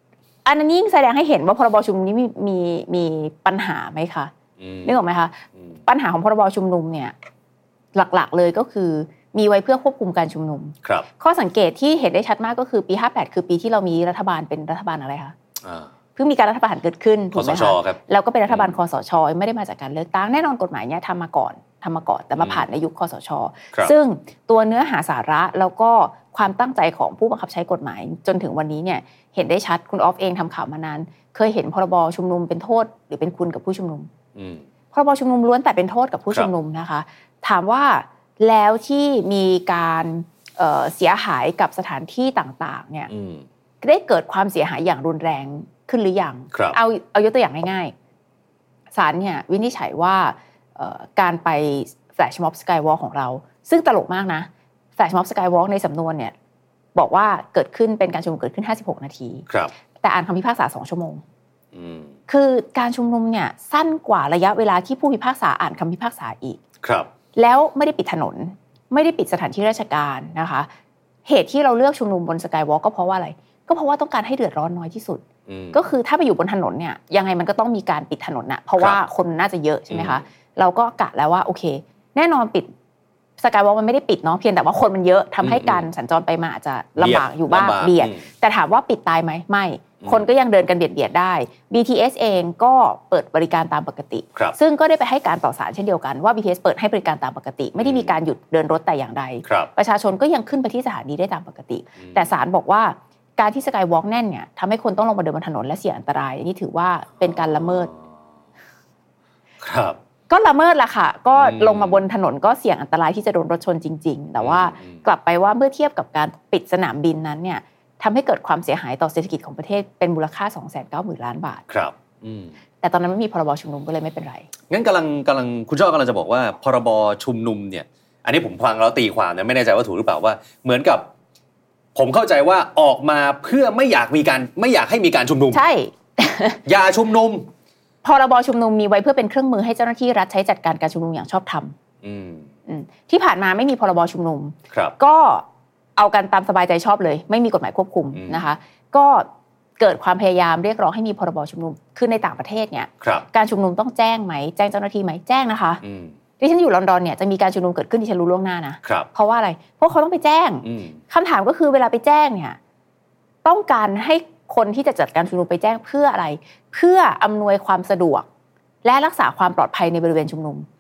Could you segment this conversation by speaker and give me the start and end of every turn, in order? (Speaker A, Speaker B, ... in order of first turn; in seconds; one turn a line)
Speaker A: 0.5-4.3
Speaker B: 4.6-5.0
Speaker A: 4.8-7.1
Speaker A: 8.0-15.4
Speaker B: 15.6-15.9
Speaker A: 16.2-34.1
Speaker B: 17.3-18.8
Speaker B: 22.4-22.7
Speaker B: 34.4-34.6
Speaker A: 34.9-43.1
Speaker B: 43.1-43.5
Speaker A: 43.8-47.9
Speaker B: 46.5-46.8
Speaker A: 48.9-56.3
Speaker A: 57.0-59.5
Speaker A: 60.0-61.2
Speaker B: 61.7-62.1
Speaker A: 62.3-66.6
Speaker B: 66.8-67.1
Speaker A: 67.4-70.7
Speaker A: 71.3-75.2
Speaker B: 75.5-75.8
Speaker A: 75.7-82.7
Speaker B: 79.9-80.2
Speaker A: 83.4-107.9
Speaker B: 85.4-85.9
Speaker B: 87.0-88.2
Speaker B: 97.8-98.1
Speaker B: 102.0-102.3
Speaker B: 107.3-107.7
Speaker B: 109.6-110.0
Speaker A: 110.3-121.6
Speaker B: 111.4-112.0
Speaker B: 114.4-115.0
Speaker B: 121.7-122.5
Speaker A: 122.8-124.5
Speaker B: 124.7-131.1
Speaker B: 131.9-135.6
Speaker A: 135.5-136.6
Speaker B: 136.7-137.5
Speaker A: 138.0-141.8
Speaker B: 142.0-142.5
Speaker A: 142.7-145.4
Speaker A: 146.0-149.3
Speaker B: 148.1-148.4
Speaker A: 149.8-155.8
Speaker B: 153.0-153.3
Speaker B: 155.8-156.2
Speaker A: 156.4-162.6
Speaker B: 158.8-159.1
Speaker B: 160.7-161.0
Speaker A: 163.4-168.3
Speaker A: 168.8-170.7